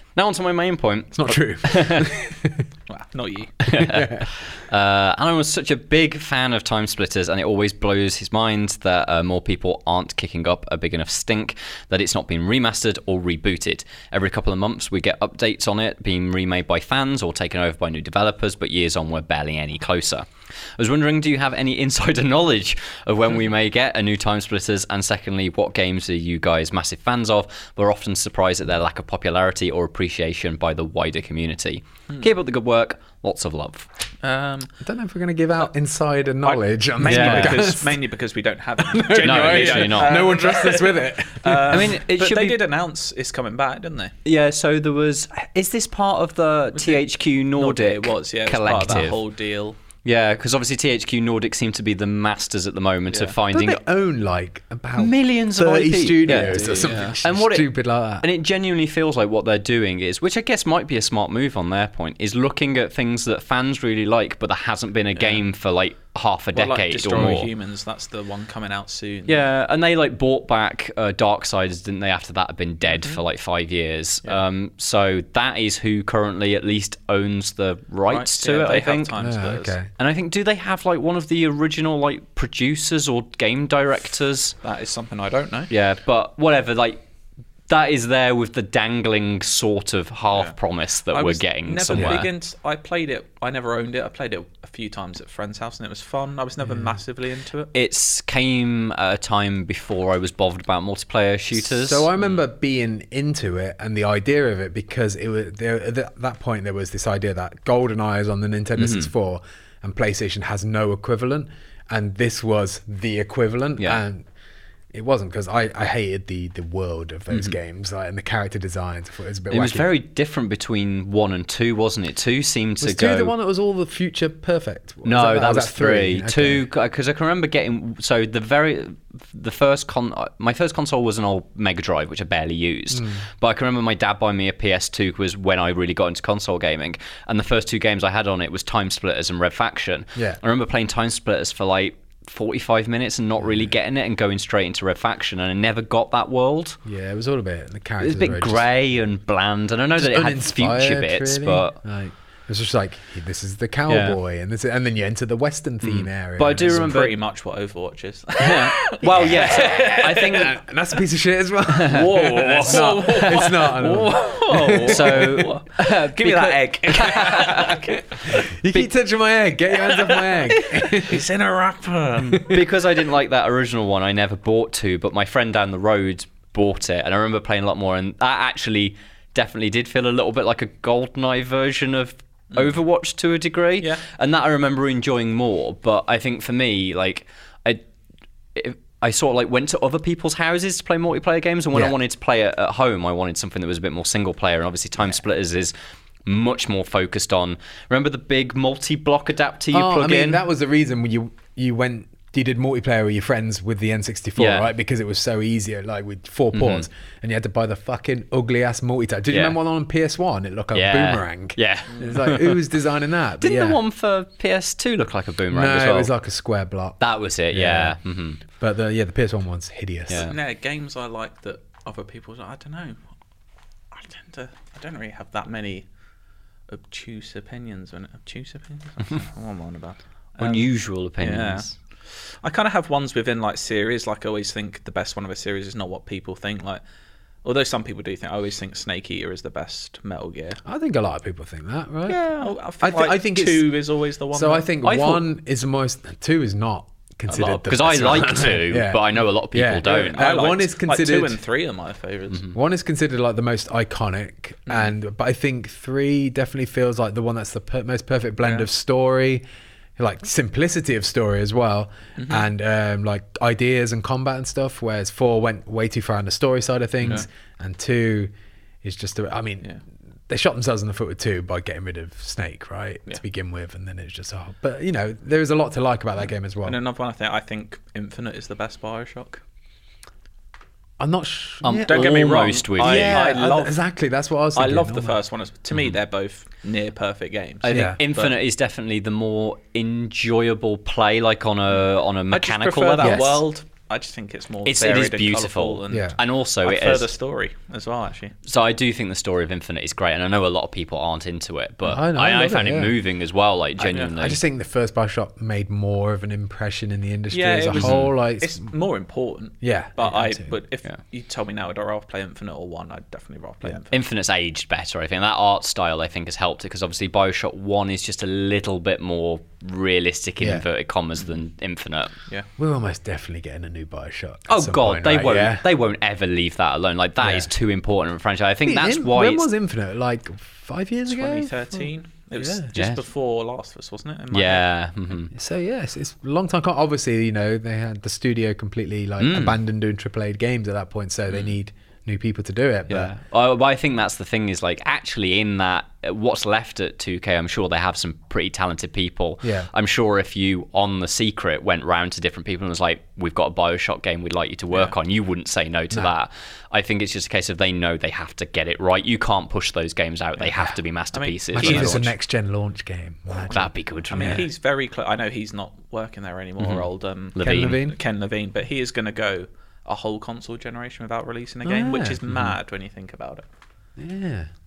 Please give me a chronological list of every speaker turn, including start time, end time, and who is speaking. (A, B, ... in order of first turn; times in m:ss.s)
0:00.2-0:02.1 A
0:01.1-0:02.6 B
0:02.9-0:03.6 C
0:03.6-0:33.9 A
0:03.7-0:04.3 B
0:34.2-0:34.7 C
0:34.8-0:38.0 B
0:36.4-0:44.1 C
0:37.0-0:37.7 A
0:38.8-0:41.9 B
0:39.2-0:40.2 A
0:41.7-0:42.6 A
0:44.2-0:49.2 A
0:46.7-0:47.0 C
0:47.6-0:49.8 C
0:50.0-0:53.8 A
0:53.5-0:58.2 B
0:55.0-1:07.5 A
0:56.2-0:57.2 C
1:06.5-1:09.4 C
1:09.3-1:19.1 A
1:12.9-1:13.2 C
1:18.1-1:19.7 C
1:19.2-1:19.9 B
1:20.0-1:24.6 A
1:24.6-1:25.7 C
1:25.7-1:27.0 A
1:27.7-1:32.3 A
1:31.1-1:37.7 C
1:31.9-1:32.2 B
1:37.7-1:42.1 A
1:41.5-1:54.2 B
1:48.8-1:49.1 A
1:54.9-1:59.9 B
1:57.3-1:57.6 A
1:59.5-2:03.3 A
2:02.8-2:06.6 B
2:05.0-2:26.8 A
2:12.9-2:13.2 B
2:26.8-2:28.6 B
2:28.0-2:31.8 A
2:30.0-2:37.1 B
2:33.9-2:34.2 A
2:35.8-2:37.1 A
2:36.7-2:40.5 C
2:38.4-2:40.6 A
2:39.1-2:45.4 B
2:41.7-2:43.3 A
2:41.9-2:48.0 C
2:44.7-2:47.8 A
2:47.2-2:51.2 B
2:49.9-2:52.6 C
2:52.2-2:52.6 B
2:52.4-3:07.8 A
3:08.5-3:15.7 A
3:16.2-3:20.4 A
3:19.7-3:33.8 B
3:24.4-3:24.7 A
3:26.5-3:26.8 A
3:29.3-3:29.6 A
3:30.7-3:32.6 A
3:31.9-3:32.2 C
3:33.4-3:36.1 A
3:35.5-3:37.0 B
3:37.0-3:38.4 A
3:37.5-3:38.0 B
3:38.5-3:40.3 B
3:40.1-3:40.4 A
3:40.1-3:43.0 C
3:43.9-3:45.8 C
3:46.7-3:50.7 C
3:50.4-3:51.7 A
3:51.2-3:51.8 C
3:52.3-3:56.8 C
3:57.4-4:00.6 C
4:00.6-4:03.8 B
4:02.1-4:04.7 C
4:04.3-4:11.4 B
4:04.8-4:05.2 A
4:07.3-4:07.6 C
4:07.3-4:10.3 A
4:09.8-4:12.5 C
4:12.5-4:19.4 B
4:18.4-4:18.7 C
4:20.0-4:28.3 B
4:22.2-4:22.5 C
4:28.8-4:29.7 B
4:30.3-4:36.8 B
4:36.6-4:39.4 C
4:41.0-4:42.2 B
4:41.6-4:43.3 A
4:41.9-4:43.8 C
4:42.8-4:45.2 B
4:44.5-4:48.3 C
4:47.6-4:53.4 A
4:47.7-4:48.0 B
4:52.3-4:58.3 C
4:53.0-4:53.4 B
4:54.6-4:57.1 A
4:55.9-4:56.2 B
4:58.4-5:04.4 A
5:01.8-5:03.0 B
5:03.8-5:08.6 B
5:07.3-5:13.9 C
5:07.7-5:08.1 A
5:09.6-5:10.5 B
5:13.9-5:22.1 A
5:20.4-5:20.6 B
5:22.6-5:25.6 B
5:24.5-5:29.5 A
5:27.2-5:27.5 B
5:28.6-5:31.9 B
5:31.1-5:34.7 C
5:32.4-5:32.7 B
5:32.7-5:33.0 A
5:34.3-5:35.3 A
5:35.3-5:43.1 B
5:39.2-5:39.6 A
5:42.9-6:02.1 A
5:49.4-5:49.7 B
6:01.1-6:02.1 C
6:01.5-6:04.4 B
6:03.5-6:04.4 A
6:04.1-6:13.4 C
6:06.6-6:07.8 A
6:07.4-6:08.0 B
6:11.6-6:12.5 B
6:14.0-6:14.5 B